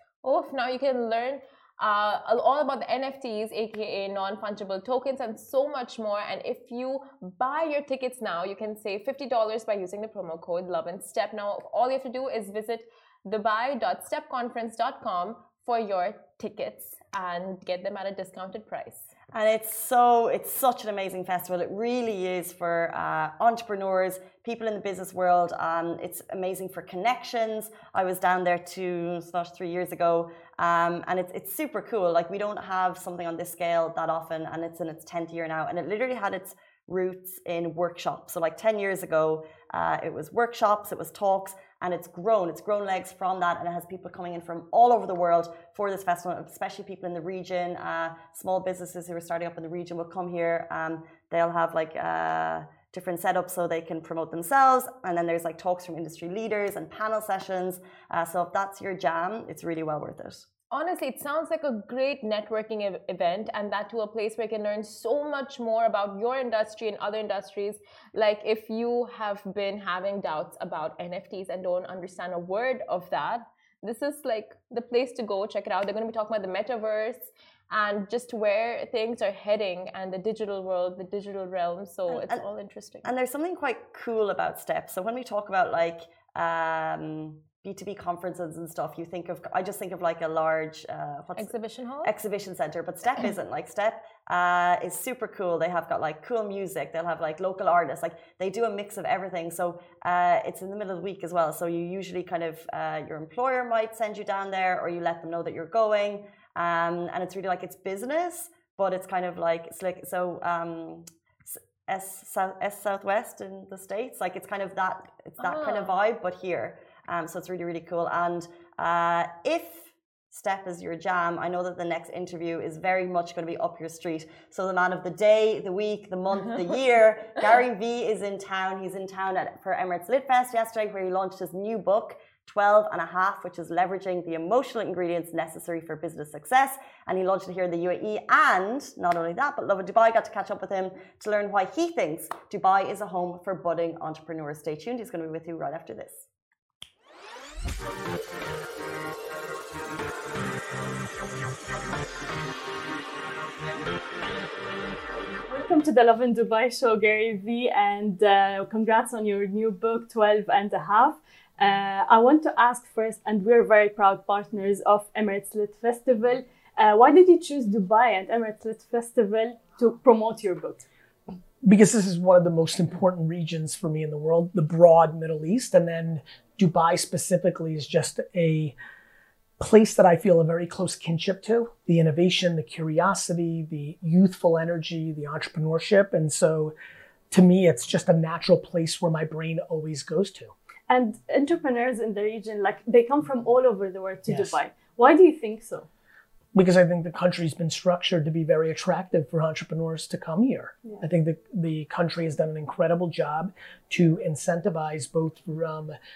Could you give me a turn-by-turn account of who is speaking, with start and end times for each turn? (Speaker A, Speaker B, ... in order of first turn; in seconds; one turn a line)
Speaker A: 0.2-19.1
Speaker B: 19.3-60.5
Speaker A: 60.7-83.1
Speaker B: 82.1-82.5
Speaker B: 83.0-146.3
Speaker A: 91.4-92.1
Speaker A: 115.4-115.9
Speaker C: 155.5-170.9
Speaker D: 171.6-178.7
Speaker D: 179.6-186.7
Speaker D: 187.3-190.5
Speaker C: 190.9-195.9
Speaker D: 194.3-194.6
Speaker D: 196.5-205.9